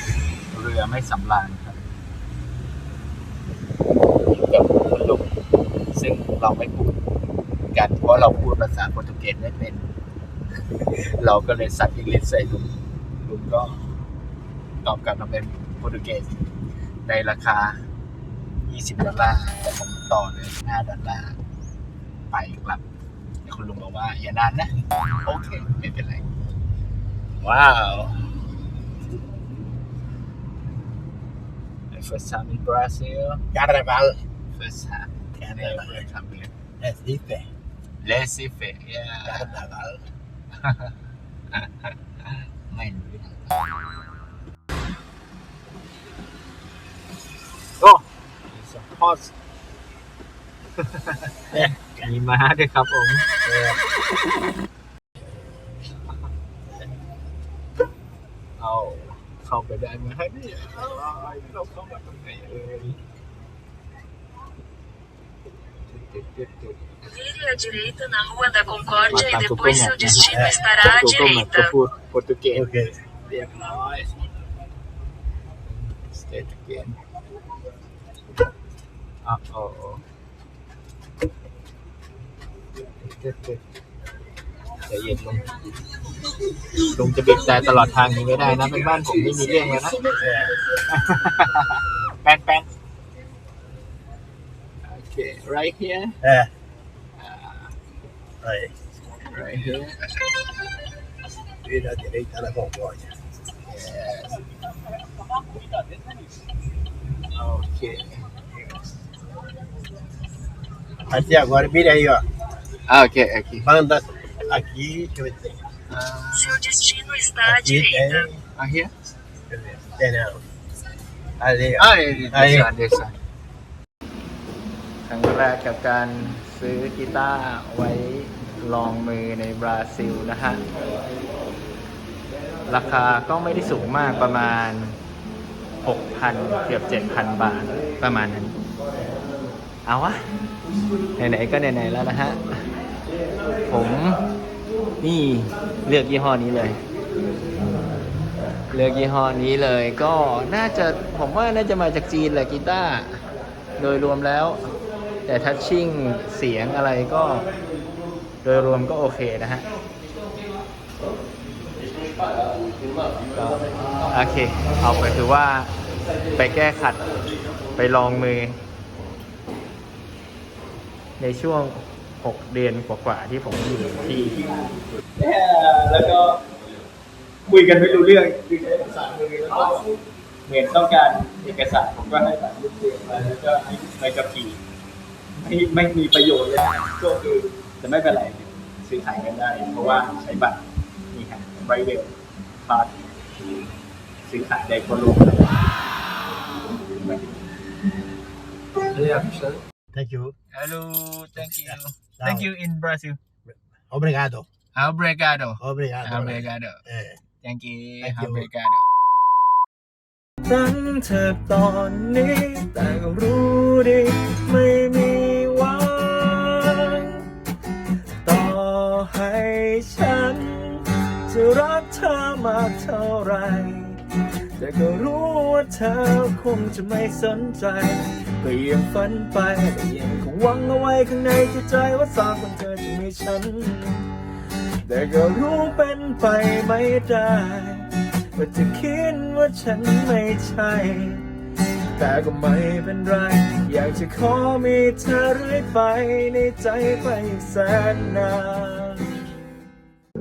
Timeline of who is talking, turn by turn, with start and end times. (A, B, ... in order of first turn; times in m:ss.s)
0:00.5-0:01.8 A
0:04.3-0:05.3 A
0:05.9-0:07.0 A
0:07.7-0:09.8 A
0:11.2-0:13.8 A
0:14.8-0:16.4 A
0:17.1-0:17.8 A
0:18.6-0:21.4 A
0:22.3-0:22.8 A
0:23.4-0:26.2 A
0:27.4-0:28.2 A
0:31.9-0:33.4 A
0:33.5-0:34.2 B
0:34.6-0:36.5 A
0:35.4-0:36.1 B
0:36.8-0:37.5 B
0:38.0-0:39.7 A
0:39.2-0:40.0 B
0:40.6-0:40.9 A
0:41.5-0:41.9 A
0:42.7-0:43.5 A
0:47.8-0:49.3 A
0:51.4-0:53.2 A
0:53.4-0:53.8 B
0:58.6-1:03.0 A
1:05.9-1:06.8 A
1:07.2-1:11.6 C
1:09.0-1:12.7 A
1:10.1-1:10.6 B
1:12.5-1:13.0 B
1:13.3-1:14.2 A
1:15.7-1:17.0 A
1:19.2-1:20.0 A
1:23.0-1:23.6 A
1:24.9-1:25.4 A
1:26.8-1:30.1 A
1:30.2-1:30.6 B
1:30.9-1:32.7 A
1:34.8-1:36.2 A
1:36.2-1:36.5 B
1:37.2-1:37.7 A
1:38.4-1:38.7 B
1:39.2-1:40.0 A
1:41.6-1:43.1 B
1:43.7-1:44.4 A
1:47.4-1:48.1 A
1:51.1-1:52.2 B
1:52.9-1:53.7 A
1:53.6-1:55.6 B
1:55.9-1:56.6 A
1:56.4-1:58.1 C
1:57.4-1:58.4 B
1:58.6-1:58.9 A
1:59.5-2:00.4 B
2:01.4-2:02.7 B
2:01.7-2:03.1 A
2:05.0-2:10.6 A
2:12.7-2:15.0 A
2:15.8-2:18.6 A
2:19.8-2:20.2 A
2:21.2-2:22.7 A
2:23.7-2:24.2 A
2:25.0-2:26.8 A
2:28.7-2:33.2 A
2:33.8-2:34.7 A
2:35.3-2:37.5 A
2:38.4-2:39.7 A
2:43.3-2:45.7 A
2:46.4-2:47.1 A
2:47.8-2:48.6 A
2:51.2-2:54.6 A
2:55.2-2:56.4 A
2:57.5-2:59.9 A
3:00.5-3:04.6 A
3:05.4-3:12.9 A
3:14.2-3:15.6 A
3:16.9-3:17.3 A
3:19.0-3:19.6 A
3:19.9-3:20.3 B
3:20.5-3:23.2 A
3:21.4-3:22.5 B
3:23.5-3:24.5 B
3:24.8-3:26.8 A
3:25.6-3:27.2 B
3:27.4-3:28.9 A
3:28.0-3:28.5 B
3:30.5-3:37.3 D
3:38.2-3:54.1 D
3:54.8-4:01.3 D
4:02.0-4:09.0 D